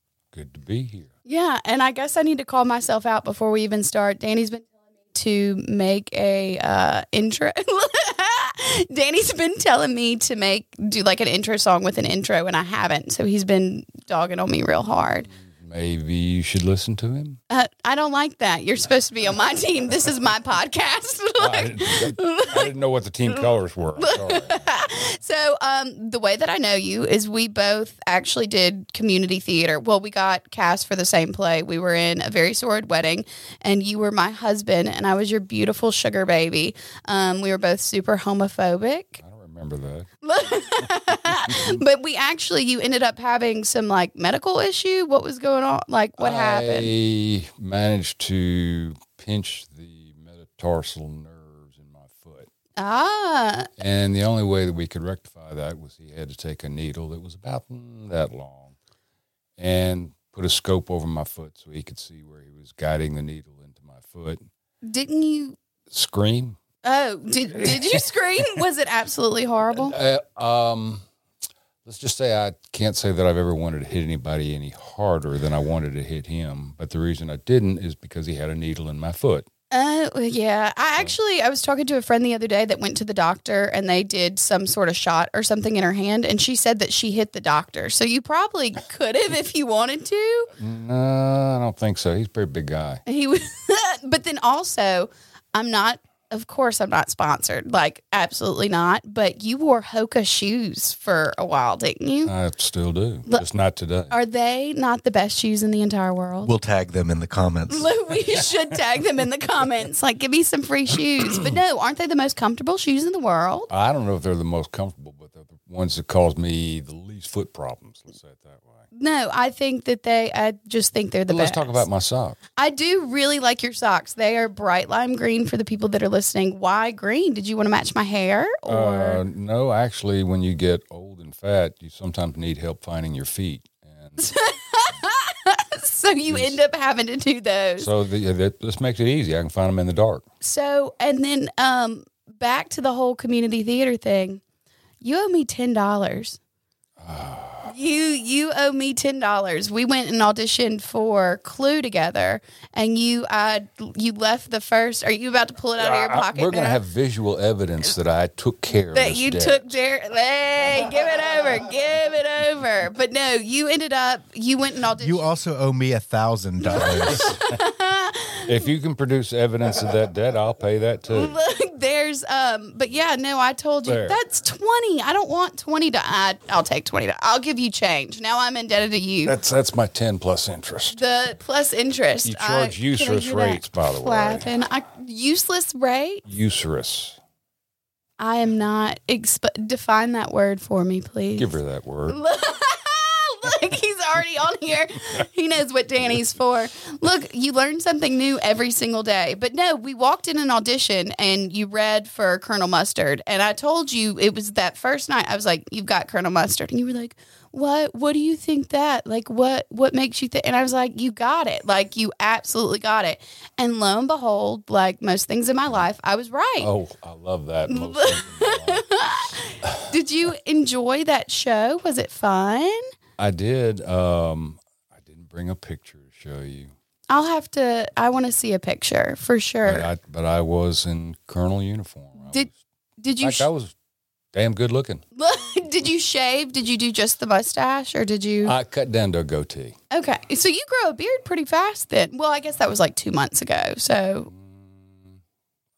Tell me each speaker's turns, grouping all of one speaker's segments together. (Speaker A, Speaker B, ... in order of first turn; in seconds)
Speaker A: 0.3-1.1, 15.2-17.4, 21.4-24.7, 39.2-40.1, 40.8-41.8, 46.2-52.5, 53.8-58.8, 59.6-64.5, 65.9-66.6, 67.5-68.6, 69.7-71.1, 71.9-79.5, 90.5-93.0, 102.3-104.2, 113.7-118.9, 121.3-122.4, 128.7-134.3, 136.3-136.6, 137.8-140.2, 147.0-147.7, 155.8-159.8, 166.8-167.6, 168.4-171.4, 173.8-174.2, 179.2-181.0, 182.2-184.5, 186.3-187.2, 191.4-192.2, 216.6-219.9, 223.2-226.7, 229.7-232.6, 233.2-233.8, 234.3-235.0, 238.4-239.8, 244.3-245.2
Speaker B: 1.3-15.3, 17.5-22.6, 24.0-39.2, 40.2-46.9, 52.8-53.7, 64.8-65.6, 66.8-70.0, 79.7-90.5, 93.1-102.3, 104.1-106.5, 107.7-113.7, 118.9-121.9, 122.6-129.2, 134.2-137.9, 140.4-144.4, 145.0-146.4, 147.7-156.8, 158.9-165.3, 166.6-168.5, 171.1-179.3, 180.9-186.2, 188.2-191.5, 192.1-216.7, 217.7-222.8, 227.1-229.9, 232.2-233.5, 235.2-238.5, 239.9-244.3
Speaker C: 106.4-108.0, 164.9-167.3